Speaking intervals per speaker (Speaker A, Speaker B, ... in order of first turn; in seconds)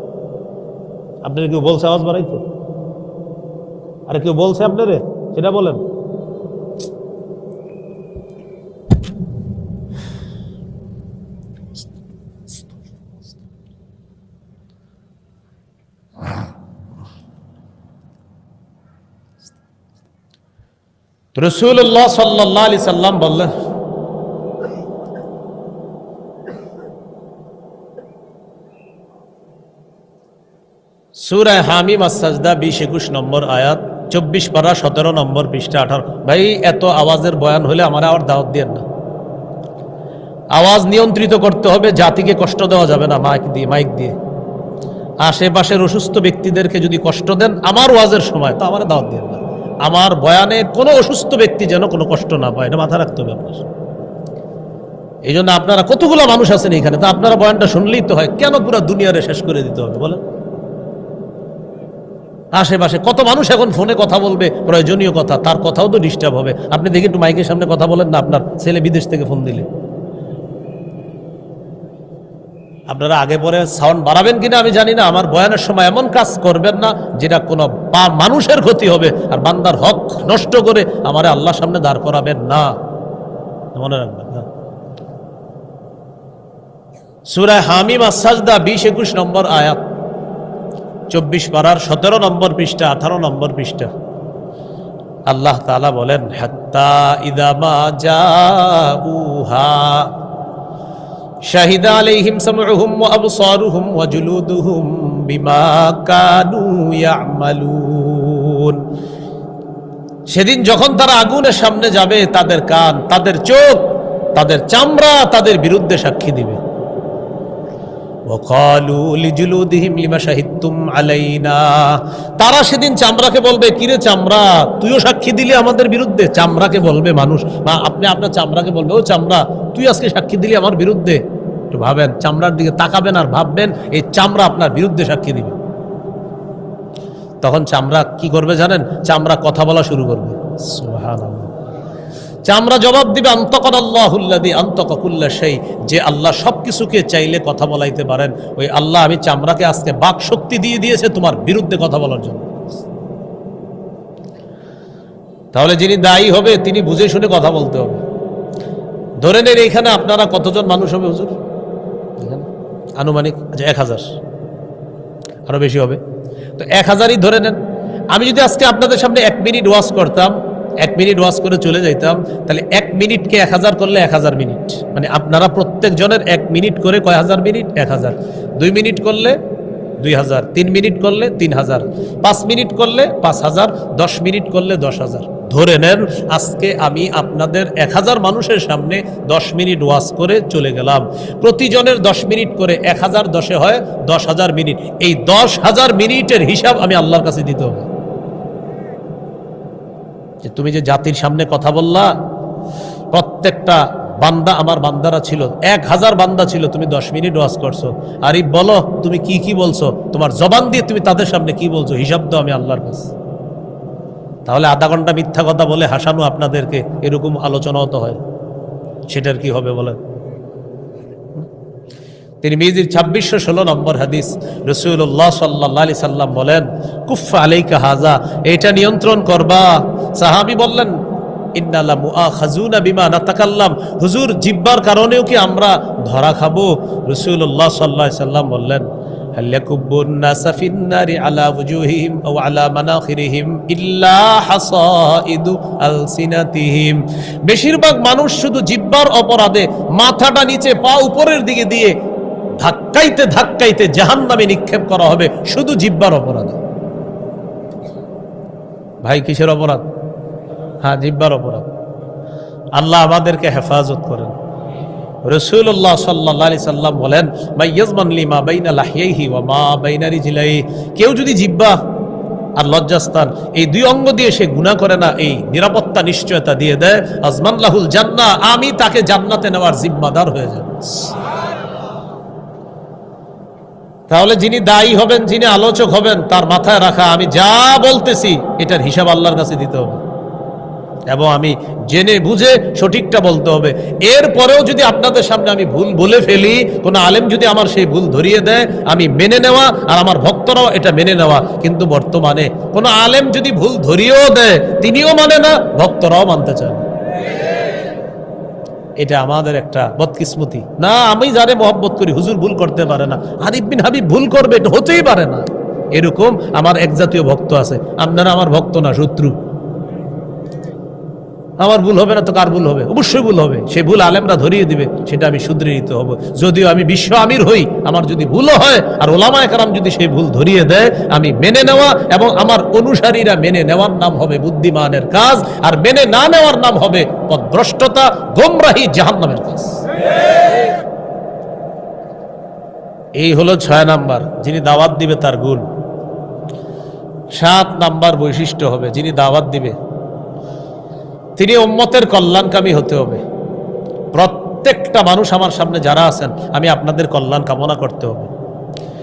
Speaker A: 1.2-2.4, 4.1-5.8, 21.4-23.5, 31.1-38.8, 40.5-44.2, 45.2-53.6, 55.3-60.2, 62.5-69.7, 72.9-82.7, 83.7-84.5, 87.3-89.8, 91.1-93.9, 95.3-100.1, 101.5-108.8, 110.3-116.6, 118.3-135.6, 137.4-141.5, 142.5-152.7, 155.5-158.0, 159.2-161.4, 162.2-164.1, 165.5-166.0, 166.6-167.6, 168.1-179.4, 180.0-197.9, 200.4-202.1, 203.1-213.1, 214.5-218.2, 219.1-220.0, 222.4-231.0, 231.6-251.9, 252.6-256.6, 259.0-259.8, 260.8-261.7, 262.8-264.3, 265.2-271.8, 272.6-281.1, 284.1-290.0, 291.1-306.9, 309.0-319.4, 321.6-339.8, 343.2-345.7, 347.4-349.8, 351.4-353.2, 354.1-358.3